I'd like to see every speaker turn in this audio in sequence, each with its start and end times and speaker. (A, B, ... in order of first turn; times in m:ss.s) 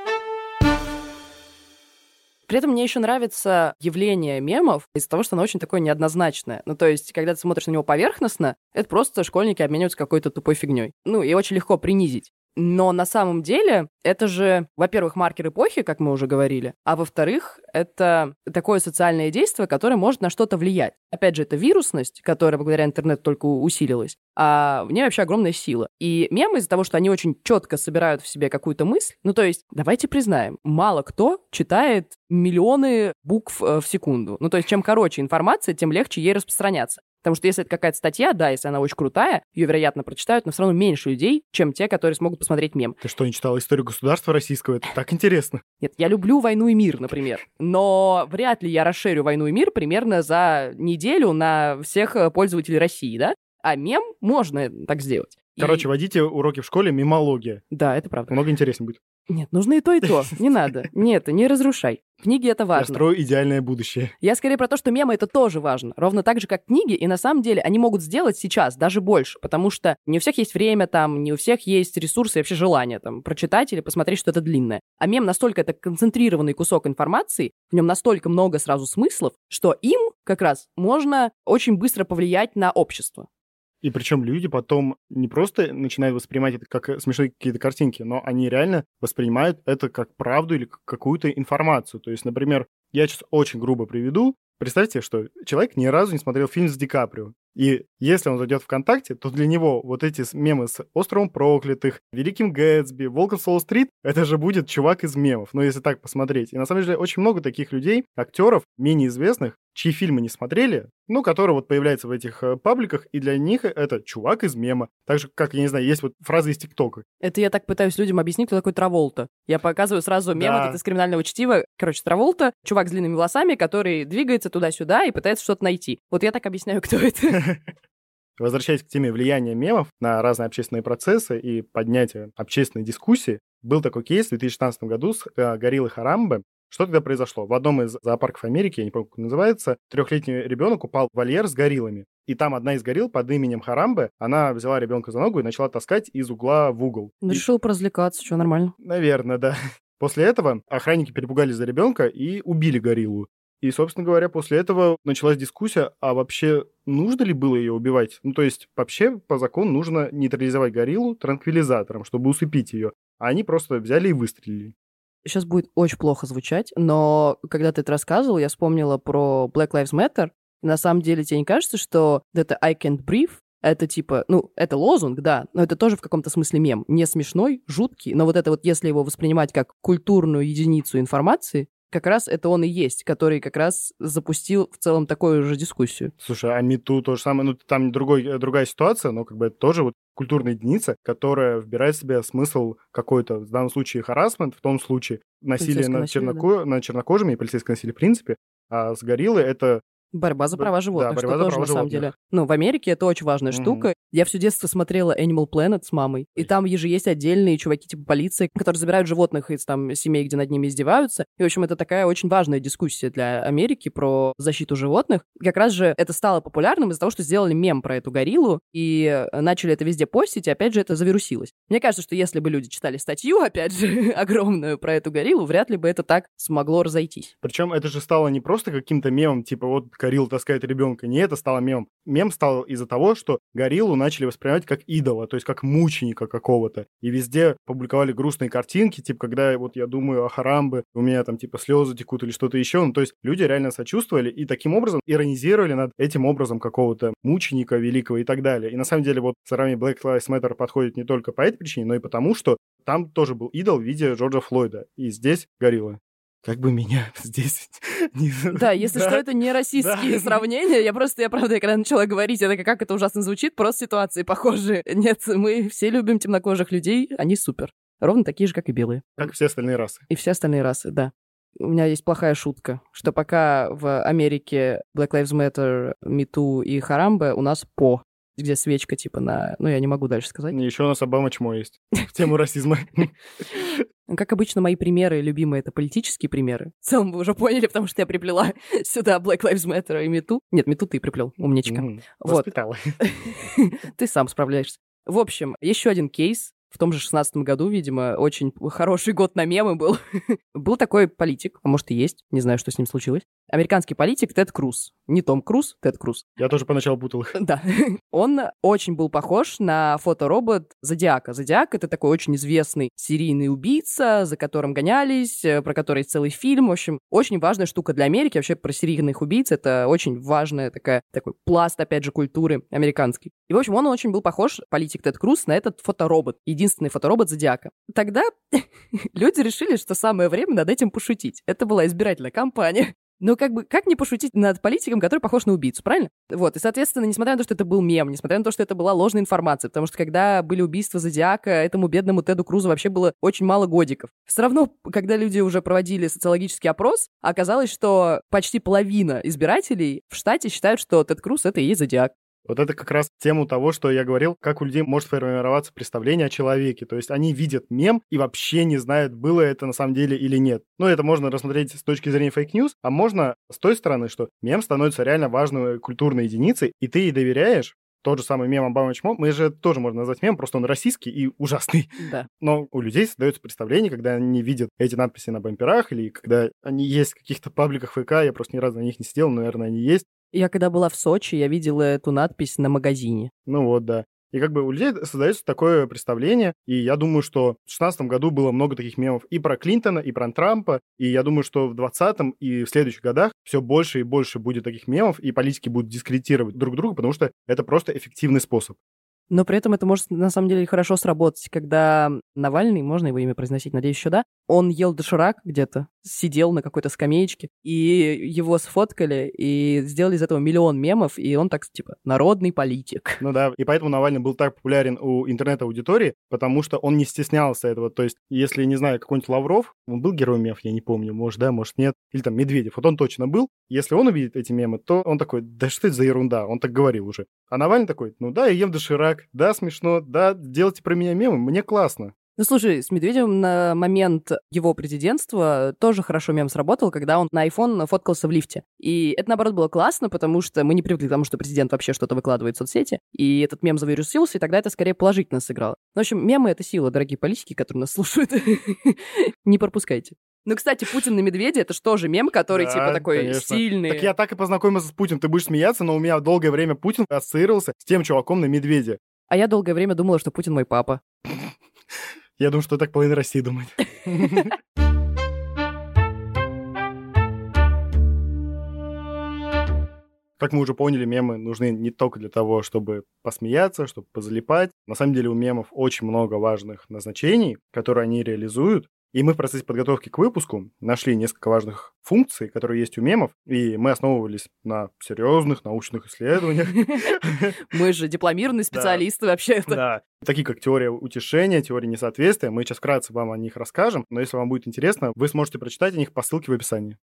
0:02.5-0:43.0 A
0:43.0-0:45.6 B
0:45.8-0:55.9 A
0:55.6-0:57.6 B
0:57.7-0:58.4 A
0:58.3-0:59.0 B
0:59.3-1:03.0 A
1:02.8-1:04.1 B
1:04.2-1:23.3 A
1:23.8-1:57.0 B
1:57.2-2:07.4 A
2:00.4-2:00.8 B
2:07.3-2:07.6 B
2:08.4-2:27.4 B
2:27.2-2:28.7 A
2:28.8-2:44.7 B
2:45.2-3:06.1 A
3:06.2-3:19.8 B
3:15.6-3:16.5 A
3:20.1-3:47.3 A
3:20.5-3:22.1 B
3:23.5-3:23.9 B
3:47.4-4:19.2 B
4:18.5-4:29.3 A
4:19.8-4:20.4 B
4:29.2-4:30.0 B
4:30.1-4:40.6 A
4:40.5-4:43.8 B
4:44.1-5:06.2 A
4:51.7-4:53.0 B
5:06.4-5:07.4 B
5:07.4-5:52.1 A
5:52.5-6:20.1 B
6:12.0-6:12.3 A
6:20.3-6:23.3 A
6:23.5-6:38.8 B
6:39.3-6:53.2 A
6:53.2-7:12.1 B
7:12.4-7:34.1 A
7:32.5-7:39.0 B
7:39.3-7:41.0 A
7:42.4-7:44.6 B
7:50.4-8:07.6 B
8:06.7-8:07.0 A
8:07.7-8:09.8 A
8:08.7-8:09.0 B
8:09.7-8:17.0 B